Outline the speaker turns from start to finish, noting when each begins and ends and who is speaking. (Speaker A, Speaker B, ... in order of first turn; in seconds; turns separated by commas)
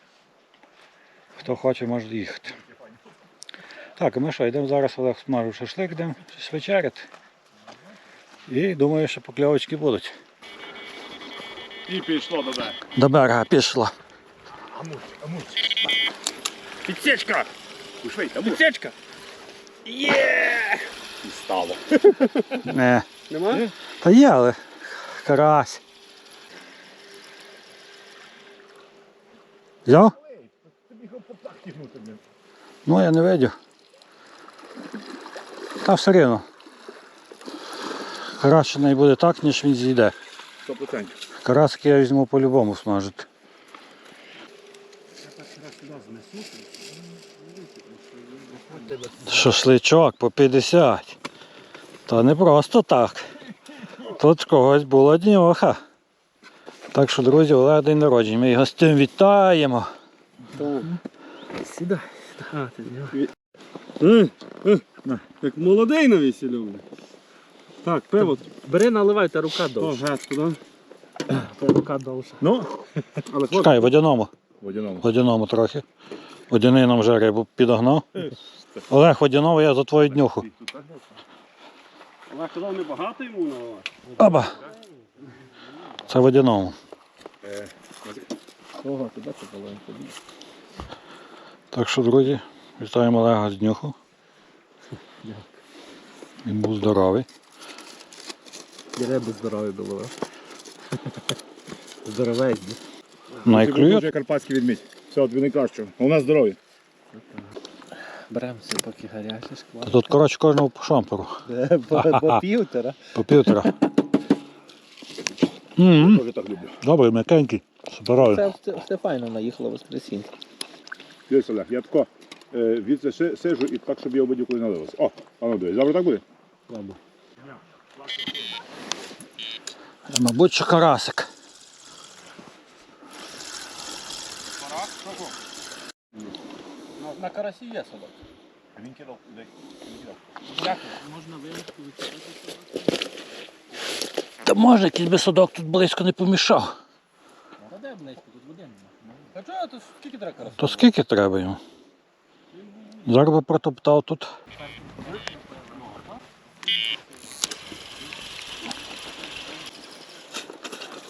Speaker A: 1.4-2.5, Speaker A: 4.0-7.1, Speaker A: 8.5-10.1, Speaker B: 11.9-12.8, Speaker A: 12.9-14.0, Speaker B: 14.6-15.9, Speaker C: 16.9-17.4, Speaker B: 18.0-18.6, Speaker C: 18.4-18.9, Speaker C: 19.9-20.9, Speaker B: 21.2-22.1, Speaker C: 22.2-22.5, Speaker A: 22.6-23.1, Speaker C: 23.3-23.6, Speaker A: 24.0-25.8, Speaker A: 29.9-30.1, Speaker B: 30.1-32.2, Speaker A: 32.9-33.5, Speaker A: 35.8-36.5, Speaker A: 38.2-40.1, Speaker B: 40.6-41.2, Speaker A: 41.4-43.3, Speaker A: 49.2-51.2, Speaker A: 52.1-53.3, Speaker A: 54.0-55.8, Speaker A: 56.9-59.9, Speaker C: 60.5-60.9, Speaker D: 61.6-63.2, Speaker C: 64.0-64.8, Speaker B: 65.0-65.2, Speaker C: 65.4-66.8, Speaker C: 67.8-68.5, Speaker D: 68.5-70.0, Speaker C: 69.8-70.6, Speaker D: 71.3-72.4, Speaker B: 72.4-72.7, Speaker B: 73.3-73.8, Speaker C: 73.3-73.7, Speaker A: 73.5-74.3, Speaker B: 74.6-75.0, Speaker A: 75.0-75.8, Speaker A: 76.5-78.3, Speaker A: 78.9-80.5, Speaker B: 80.2-81.1, Speaker C: 82.3-84.0, Speaker A: 84.2-84.6, Speaker A: 86.1-86.8, Speaker B: 87.4-88.2, Speaker D: 88.8-90.2, Speaker A: 91.7-94.0, Speaker D: 95.2-95.5, Speaker A: 96.4-97.3, Speaker D: 99.0-100.1, Speaker D: 102.0-102.8, Speaker B: 103.4-106.6, Speaker A: 103.5-104.0, Speaker D: 108.3-110.1, Speaker A: 109.8-111.4, Speaker D: 111.5-113.7, Speaker A: 111.9-112.4, Speaker A: 113.1-113.7, Speaker A: 115.8-116.2, Speaker B: 115.9-116.8, Speaker A: 116.8-118.5, Speaker D: 118.2-120.3, Speaker B: 121.3-126.2, Speaker D: 126.7-127.0, Speaker A: 130.1-131.3, Speaker D: 137.1-138.1, Speaker B: 138.8-140.2, Speaker D: 140.5-142.8, Speaker A: 144.4-146.8, Speaker D: 147.6-150.8, Speaker A: 150.6-151.6, Speaker A: 153.0-154.3